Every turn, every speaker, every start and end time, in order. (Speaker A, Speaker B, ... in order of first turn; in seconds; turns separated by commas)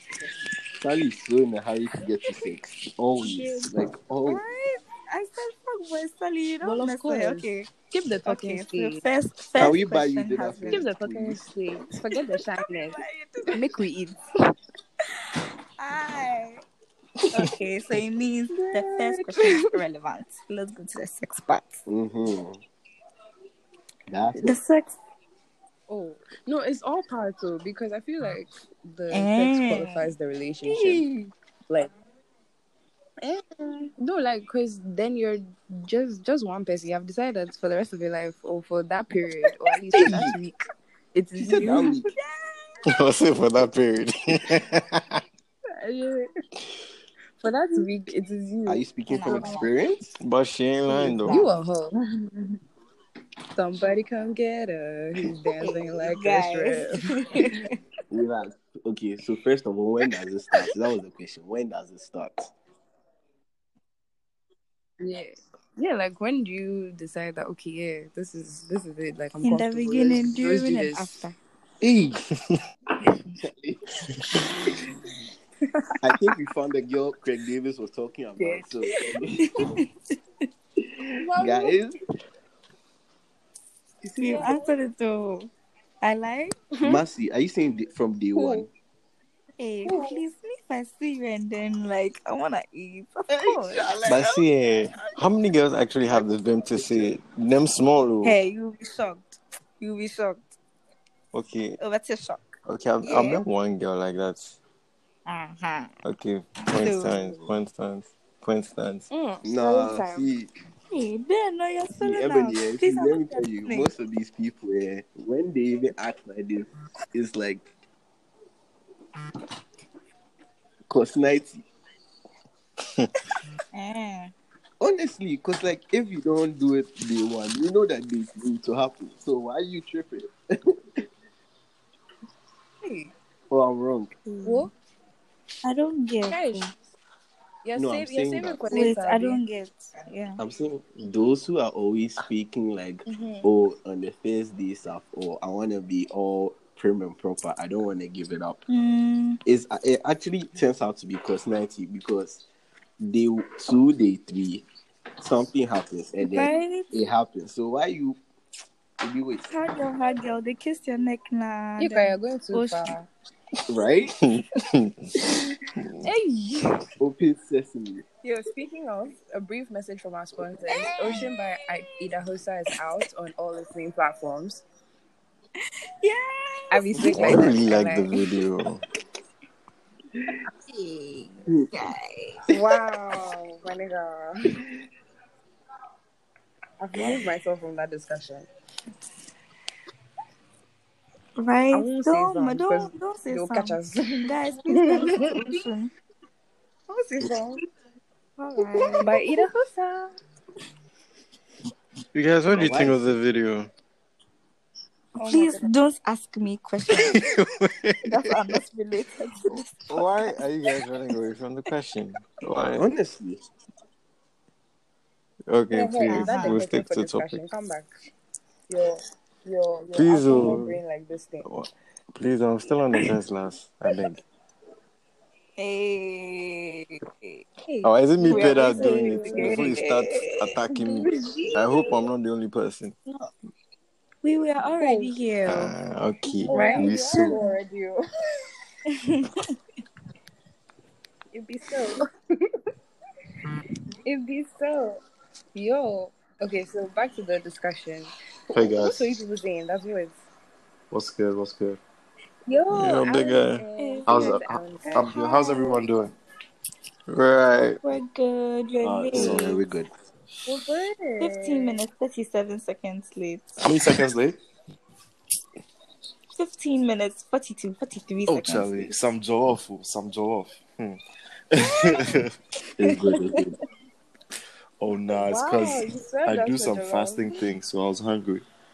Speaker A: 0.8-4.4, Speaker B: 3.2-3.6, Speaker B: 4.2-7.7, Speaker C: 6.6-9.0, Speaker B: 8.2-10.8, Speaker A: 9.6-11.4, Speaker C: 10.7-13.0, Speaker B: 12.7-13.6, Speaker C: 13.5-14.2, Speaker B: 15.8-16.6, Speaker B: 17.3-21.9, Speaker C: 18.5-19.6, Speaker A: 21.9-22.6, Speaker A: 24.1-24.6, Speaker B: 24.4-25.0, Speaker C: 25.9-31.0, Speaker B: 29.1-30.0, Speaker B: 30.7-31.3, Speaker B: 33.2-33.9, Speaker C: 34.0-41.9, Speaker A: 40.0-40.3, Speaker A: 41.4-42.1, Speaker D: 42.9-45.2, Speaker C: 45.8-46.3, Speaker C: 47.4-49.5, Speaker A: 48.6-50.2, Speaker B: 49.1-49.7, Speaker D: 50.2-51.5, Speaker B: 50.9-51.5, Speaker C: 51.3-52.3, Speaker C: 53.5-57.5, Speaker B: 55.6-57.6, Speaker A: 58.1-62.5, Speaker C: 65.0-71.4, Speaker B: 69.4-71.3, Speaker A: 71.8-72.2, Speaker A: 73.4-73.8, Speaker A: 76.0-79.5, Speaker C: 78.4-78.7, Speaker C: 81.2-81.8, Speaker A: 81.3-81.9, Speaker A: 84.0-84.5, Speaker C: 84.2-84.6, Speaker B: 84.2-86.8, Speaker A: 86.8-88.7, Speaker C: 88.3-88.7, Speaker B: 89.6-93.9, Speaker C: 89.8-90.2, Speaker A: 93.3-94.4, Speaker D: 94.0-98.4, Speaker A: 96.1-97.1, Speaker B: 98.2-100.6, Speaker D: 101.3-101.8, Speaker B: 101.8-102.4, Speaker D: 102.7-104.6, Speaker B: 103.0-103.4, Speaker B: 105.2-105.9, Speaker D: 106.0-109.0, Speaker B: 106.7-107.4, Speaker C: 109.1-110.3, Speaker A: 109.4-110.5, Speaker B: 110.9-113.9, Speaker A: 111.9-117.7, Speaker A: 120.9-121.6, Speaker B: 123.7-124.3, Speaker A: 124.8-131.1, Speaker A: 133.5-134.2, Speaker B: 134.3-134.6, Speaker C: 134.4-134.7, Speaker B: 135.6-136.7, Speaker C: 136.3-136.7, Speaker C: 137.6-139.4, Speaker A: 137.8-138.9, Speaker B: 138.7-140.4, Speaker A: 140.4-148.6, Speaker C: 143.1-143.5, Speaker B: 148.7-149.4, Speaker A: 149.4-152.4, Speaker A: 153.0-154.7, Speaker A: 155.2-158.2, Speaker B: 156.3-156.9, Speaker A: 159.0-159.5, Speaker B: 159.5-162.9, Speaker C: 161.8-163.1, Speaker A: 163.7-164.2, Speaker D: 164.2-165.1, Speaker D: 165.8-166.1, Speaker C: 166.0-166.8, Speaker A: 167.0-168.0, Speaker C: 168.2-174.6, Speaker B: 170.8-171.3, Speaker B: 176.0-177.6, Speaker C: 176.7-178.1, Speaker D: 177.0-178.8, Speaker B: 180.7-183.0, Speaker C: 182.5-184.6, Speaker C: 186.8-188.5, Speaker B: 187.0-187.2, Speaker B: 191.4-195.9, Speaker C: 191.7-195.5, Speaker B: 196.9-197.6, Speaker B: 198.4-199.4, Speaker C: 199.0-200.1, Speaker D: 202.1-203.7, Speaker A: 202.5-203.1, Speaker C: 205.2-205.7, Speaker B: 205.2-207.3, Speaker D: 206.9-208.6, Speaker B: 208.1-210.1, Speaker D: 209.9-212.8, Speaker A: 212.5-213.4, Speaker D: 215.5-217.4, Speaker C: 215.7-217.9, Speaker B: 216.1-216.6, Speaker C: 218.7-221.5, Speaker D: 219.9-220.8, Speaker A: 220.3-220.6, Speaker D: 221.4-224.2, Speaker B: 225.6-226.9, Speaker C: 227.6-229.8, Speaker D: 227.8-232.9, Speaker B: 228.2-231.8, Speaker B: 234.2-235.7, Speaker C: 234.8-235.1, Speaker D: 235.4-237.4, Speaker B: 236.5-237.5, Speaker C: 236.5-238.0, Speaker B: 238.9-239.4, Speaker C: 241.3-242.1, Speaker C: 244.0-245.0, Speaker C: 245.5-250.2, Speaker E: 248.5-249.1, Speaker E: 250.9-251.8, Speaker C: 252.4-255.1, Speaker D: 252.7-253.6, Speaker B: 253.8-255.8, Speaker E: 254.1-256.1, Speaker D: 257.1-257.8, Speaker B: 257.8-259.6, Speaker A: 258.8-259.9, Speaker D: 259.1-259.5, Speaker C: 260.4-261.8, Speaker B: 261.2-263.6, Speaker E: 263.6-264.4, Speaker B: 266.3-268.9, Speaker E: 268.3-271.0, Speaker E: 271.5-272.4, Speaker A: 272.8-273.6, Speaker E: 274.8-278.4, Speaker C: 275.1-277.4